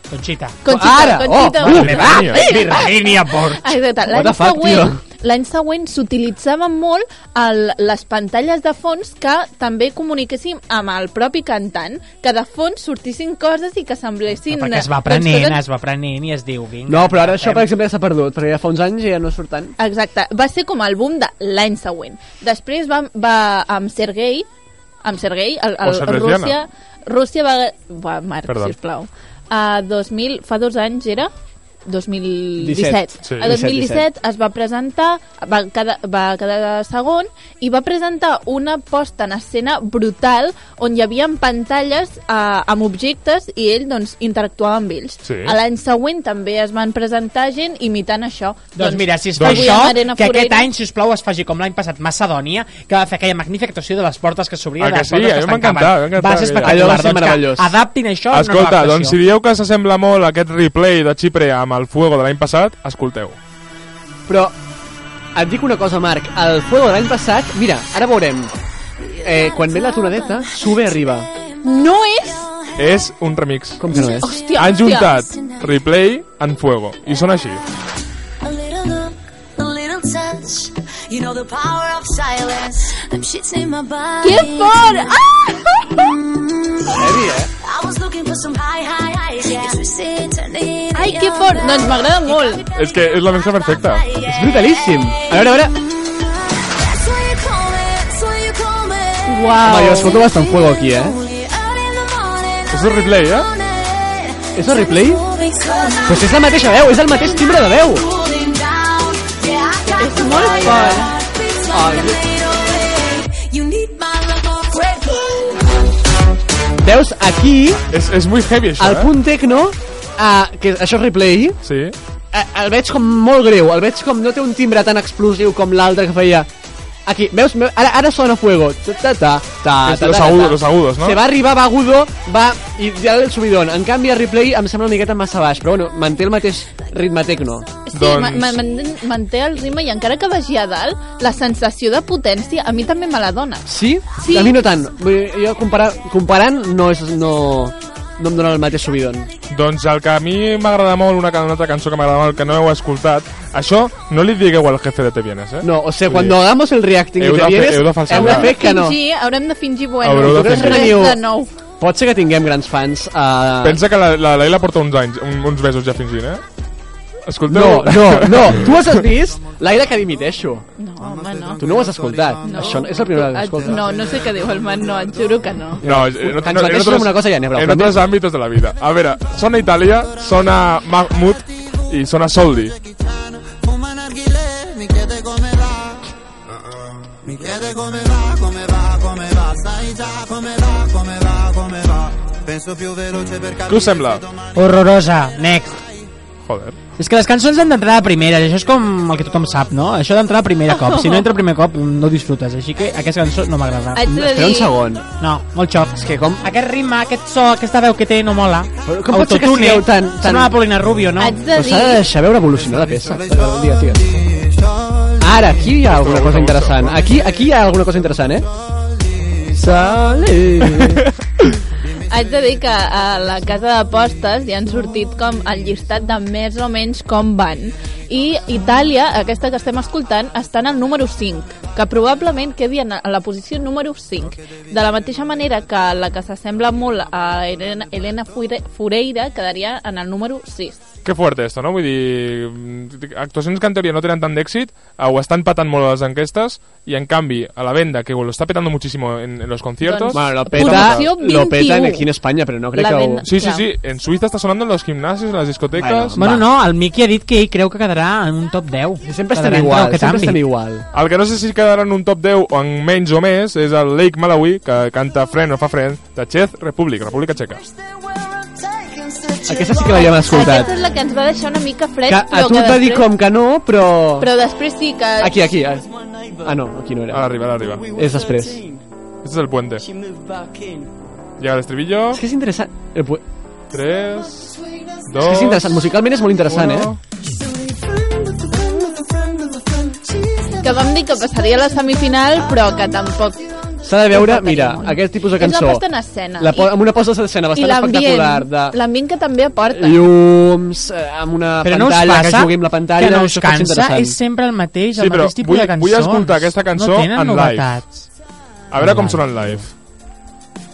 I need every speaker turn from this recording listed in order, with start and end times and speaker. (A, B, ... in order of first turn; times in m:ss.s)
0:00.1-0:00.6 A
0:00.6-0:15.6 B
0:00.6-0:02.1 C
0:01.6-0:03.8 A
0:02.0-0:02.4 D
0:04.1-0:05.0 C
0:14.5-0:17.7 A
0:16.9-0:19.7 C
0:19.8-0:24.5 B
0:25.0-0:31.3 B
0:25.8-0:26.6 D
0:28.5-0:28.7 D
0:31.8-0:50.7 B
0:32.6-0:34.0 C
0:33.2-0:33.5 D
0:45.2-0:45.5 D
0:48.7-0:59.2 A
0:49.4-0:49.8 D
0:54.8-0:57.0 D
0:56.6-0:57.7 C
0:58.3-1:03.4 D
1:04.3-1:04.5 C
1:05.3-1:08.5 C
1:09.1-1:11.3 C
1:11.6-1:12.5 B
1:12.8-1:13.9 D
1:13.8-1:14.4 C
1:13.9-1:15.1 B
1:14.5-1:17.6 D
1:19.6-1:24.1 E
1:24.2-1:26.2 B
1:26.8-1:27.5 C
1:27.8-1:28.4 A
1:27.8-1:30.9 E
1:30.5-1:30.8 A
1:30.9-1:32.6 B
1:32.7-1:34.1 D
1:34.2-1:35.8 C
1:37.0-1:37.4 A
1:37.1-1:39.2 E
1:39.2-1:40.2 B
1:39.5-1:41.2 C
1:41.5-1:42.6 E
1:42.7-1:43.5 D
1:43.8-1:44.2 A
1:44.5-1:45.3 C
1:45.5-1:46.1 A
1:46.0-1:48.1 C
1:48.2-1:50.5 E
1:48.5-1:49.6 A
1:49.9-1:51.2 B
1:51.0-1:51.8 E
1:51.7-1:52.3 C
1:52.3-1:55.0 E
1:52.6-1:53.2 A
1:54.3-1:55.6 A
1:56.8-1:57.8 C
1:57.9-1:59.1 D
1:58.8-2:01.6 C
2:01.6-2:02.0 D
2:02.3-2:06.5 C
2:07.0-2:17.7 C
2:09.8-2:11.2 D
2:17.8-2:24.6 B
2:17.9-2:18.6 D
2:23.7-2:29.3 C
2:29.5-2:36.5 D
2:35.6-2:39.0 C
2:37.2-2:38.5 D
2:38.1-2:41.5 B
2:40.0-2:41.0 D
2:40.2-2:41.2 C
2:41.8-2:43.8 C
2:43.6-2:46.4 D
2:47.2-2:49.0 D
2:47.5-2:50.6 C
2:50.8-2:55.8 B
2:51.6-2:53.8 C
2:55.8-2:58.0 C
2:55.8-3:02.8 D
3:07.6-3:11.3 F
3:12.7-3:13.5 F
3:13.6-3:14.2 D
3:14.5-3:15.8 A
3:16.4-3:16.8 D
3:17.0-3:24.1 A
3:20.7-3:21.3 B
3:23.9-3:24.7 B
3:24.1-3:25.0 C
3:25.2-3:31.4 A
3:26.0-3:26.4 C
3:28.8-3:30.5 C
3:31.2-3:32.0 B
3:31.5-3:34.1 C
3:35.2-3:38.5 C
3:35.8-3:37.0 D
3:39.5-3:41.1 C
3:42.0-4:00.8 B
4:01.0-4:11.0 D
4:09.8-4:12.1 B
4:10.1-4:13.2 C
4:12.7-4:13.7 B
4:13.2-4:16.2 D
4:15.8-4:20.4 A
4:16.2-4:16.4 C
4:19.0-4:20.8 C
4:20.9-4:27.6 D
4:28.8-4:29.4 E
4:29.4-4:30.7 C
4:29.9-4:33.1 B
4:32.1-4:34.3 C
4:34.2-4:35.4 B
4:35.2-4:35.9 C
4:36.4-4:37.2 C
4:37.1-4:38.0 D
4:37.9-4:38.8 C
4:39.2-4:39.8 D
4:41.4-4:42.2 D
4:42.1-4:43.2 C
4:43.7-4:45.9 D
4:45.2-4:46.9 C
4:46.4-4:47.0 D
4:47.8-4:50.5 C
4:50.6-4:53.5 B
4:53.8-4:55.8 C
4:54.0-4:56.7 B
4:56.4-4:58.8 C
4:57.5-5:00.1 B
4:59.7-5:04.2 C
5:01.6-5:08.0 A
5:04.9-5:07.8 D
5:08.7-5:09.7 D
5:08.7-5:09.4 A